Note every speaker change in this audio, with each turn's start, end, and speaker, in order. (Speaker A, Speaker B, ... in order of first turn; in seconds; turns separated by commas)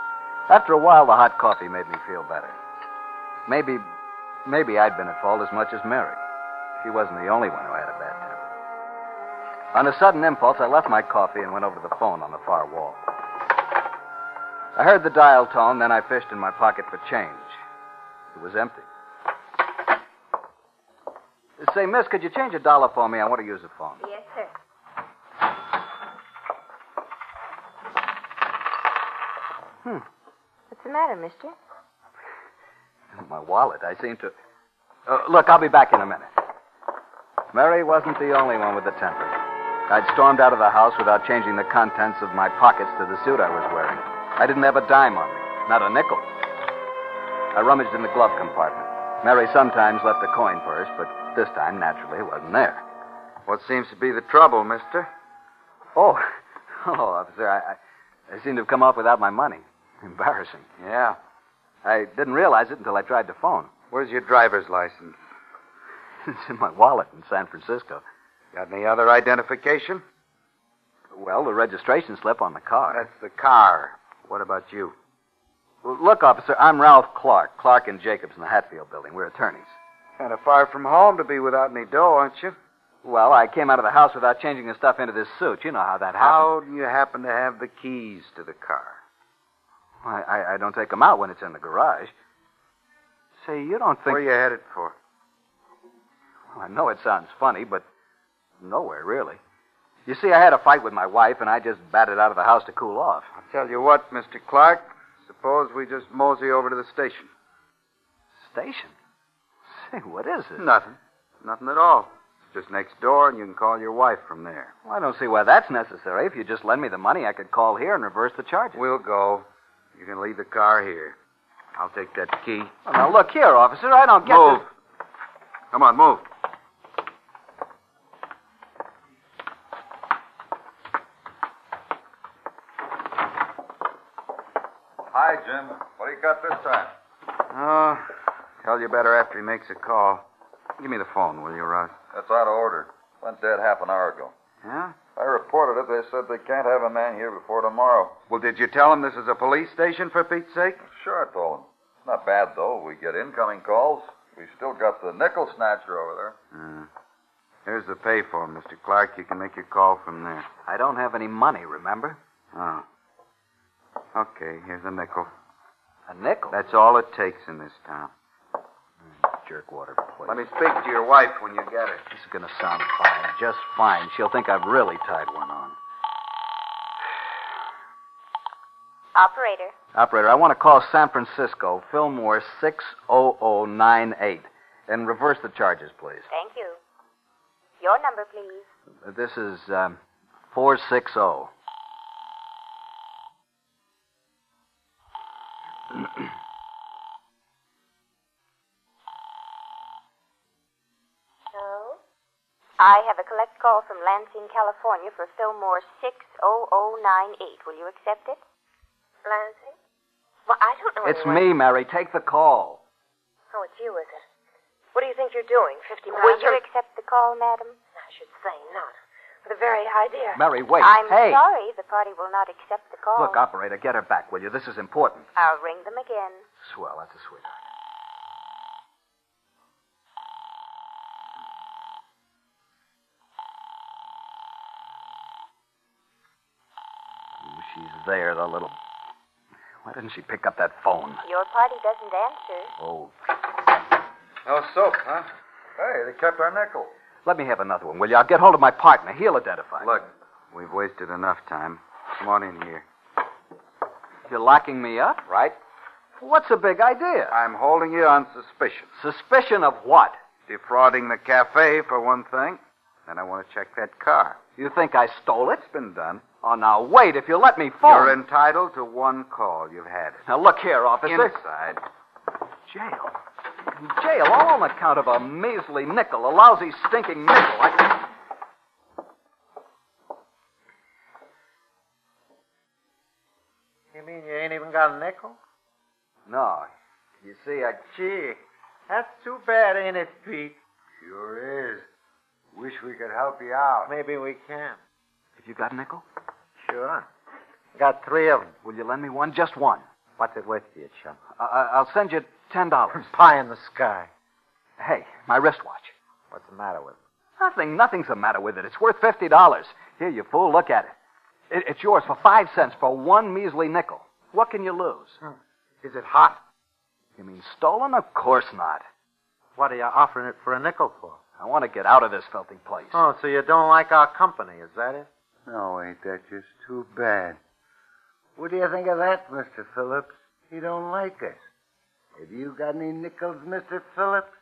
Speaker A: 0.5-2.6, Speaker A: 3.5-3.9, Speaker A: 4.5-6.2, Speaker A: 6.8-8.5, Speaker A: 9.7-13.0, Speaker A: 14.8-17.6, Speaker A: 18.3-18.9, Speaker A: 21.6-24.0, Speaker B: 24.0-24.5, Speaker B: 30.7-31.6, Speaker A: 33.1-34.3, Speaker A: 35.1-36.3, Speaker A: 37.5-39.4, Speaker A: 39.9-46.3, Speaker A: 47.5-52.8, Speaker C: 53.5-55.1, Speaker A: 56.0-56.3, Speaker A: 56.8-57.8, Speaker A: 58.3-60.7, Speaker C: 60.8-61.2, Speaker A: 61.9-63.7, Speaker C: 63.9-65.2, Speaker A: 66.2-68.0, Speaker C: 68.5-70.0, Speaker A: 71.1-73.1, Speaker C: 72.9-75.0, Speaker A: 75.8-79.8, Speaker C: 80.2-82.6, Speaker A: 83.0-86.5, Speaker C: 86.2-89.0, Speaker A: 90.0-92.2, Speaker A: 93.4-94.2, Speaker C: 94.0-95.0, Speaker A: 96.5-97.8, Speaker A: 98.6-99.4, Speaker A: 100.1-103.3, Speaker C: 103.4-107.3, Speaker A: 108.4-108.9, Speaker A: 109.7-110.7, Speaker C: 110.6-114.7, Speaker A: 114.8-118.8, Speaker C: 118.8-121.2, Speaker C: 121.8-122.7, Speaker A: 122.8-124.7, Speaker C: 124.2-124.7, Speaker C: 125.7-126.3, Speaker D: 135.1-136.9, Speaker C: 137.5-138.1, Speaker C: 138.6-140.2, Speaker C: 140.8-141.9, Speaker D: 142.1-144.3, Speaker C: 144.6-145.0, Speaker D: 145.0-148.2, Speaker C: 148.3-150.8, Speaker D: 150.8-156.4, Speaker C: 156.5-156.9, Speaker C: 157.7-160.5, Speaker A: 160.7-162.2, Speaker C: 162.5-162.8, Speaker C: 164.1-165.3, Speaker A: 166.1-166.6, Speaker C: 166.5-168.1, Speaker A: 169.2-170.4, Speaker C: 170.3-172.0, Speaker A: 172.1-175.8, Speaker B: 179.2-179.8, Speaker A: 179.9-186.3, Speaker B: 186.3-186.8, Speaker B: 187.8-188.7, Speaker A: 189.0-190.0, Speaker A: 190.5-191.5, Speaker E: 201.5-202.0, Speaker B: 202.8-208.4, Speaker E: 209.2-209.8, Speaker E: 210.5-211.6, Speaker A: 211.0-212.8, Speaker E: 213.5-214.2, Speaker E: 214.9-216.6, Speaker B: 216.1-217.8, Speaker E: 217.9-220.4, Speaker A: 220.3-221.4, Speaker B: 220.8-223.4, Speaker A: 223.2-225.3, Speaker B: 225.4-226.4, Speaker A: 226.6-227.6, Speaker A: 237.4-238.8, Speaker A: 239.8-241.2, Speaker B: 241.2-242.7, Speaker A: 242.8-243.1, Speaker C: 244.5-245.3, Speaker D: 245.8-246.9, Speaker A: 247.2-250.0, Speaker C: 249.8-252.8, Speaker A: 254.3-255.2, Speaker C: 255.3-255.6, Speaker A: 256.2-257.4, Speaker C: 257.3-258.9, Speaker A: 259.0-260.2, Speaker C: 260.5-264.4, Speaker A: 264.6-265.6, Speaker C: 265.6-266.2, Speaker A: 266.4-268.2, Speaker C: 267.8-270.2, Speaker A: 270.3-271.4, Speaker C: 271.1-271.8, Speaker A: 272.7-273.2, Speaker A: 273.8-278.0, Speaker F: 283.9-285.4, Speaker A: 286.3-286.7, Speaker A: 287.2-287.9, Speaker F: 287.9-290.6, Speaker G: 291.0-291.9, Speaker G: 292.5-293.9, Speaker F: 293.9-294.8, Speaker A: 295.4-296.0, Speaker F: 296.6-297.1, Speaker F: 297.8-298.5, Speaker A: 298.6-299.9, Speaker F: 300.2-301.2, Speaker A: 301.4-303.1, Speaker F: 303.0-304.1, Speaker A: 304.8-305.9, Speaker F: 306.3-307.0, Speaker A: 307.4-310.9, Speaker A: 311.5-315.2, Speaker F: 315.8-316.4, Speaker A: 317.2-318.9, Speaker F: 319.6-321.2, Speaker A: 321.4-323.0, Speaker F: 322.9-325.1, Speaker G: 325.5-327.4, Speaker G: 328.4-331.4, Speaker G: 332.2-334.3